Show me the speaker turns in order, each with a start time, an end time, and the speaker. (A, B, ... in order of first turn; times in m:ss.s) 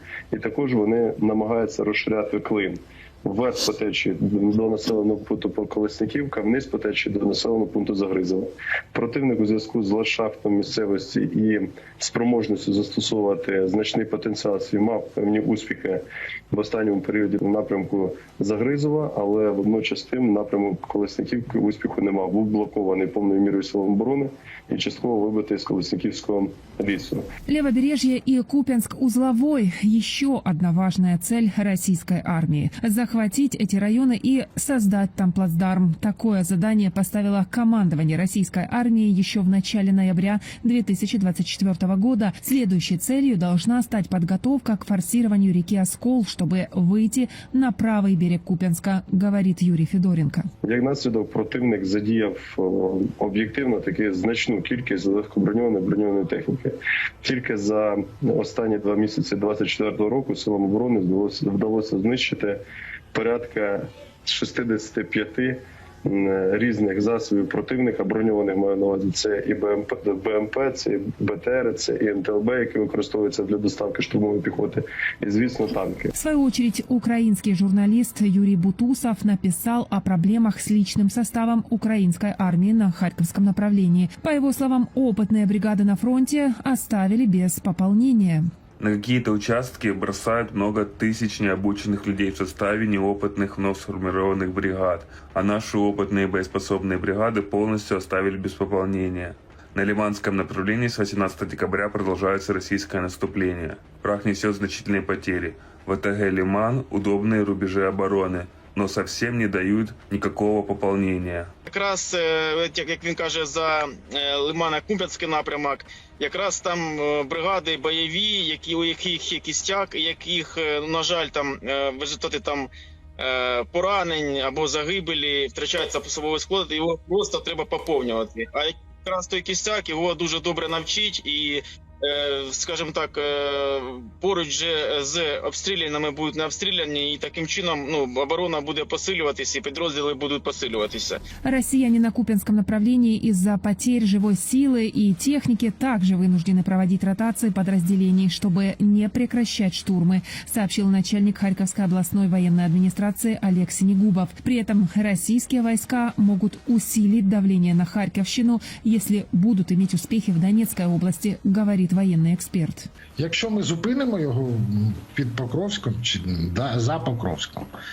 0:00.3-0:27.2 A
0:27.5-0:50.5 B
0:50.6-1:02.6 A
1:03.1-1:16.1 A
1:16.2-1:28.5 B
1:28.8-1:51.5 C
1:51.7-2:21.2 D
2:21.4-2:42.9 B
2:43.2-2:47.7 E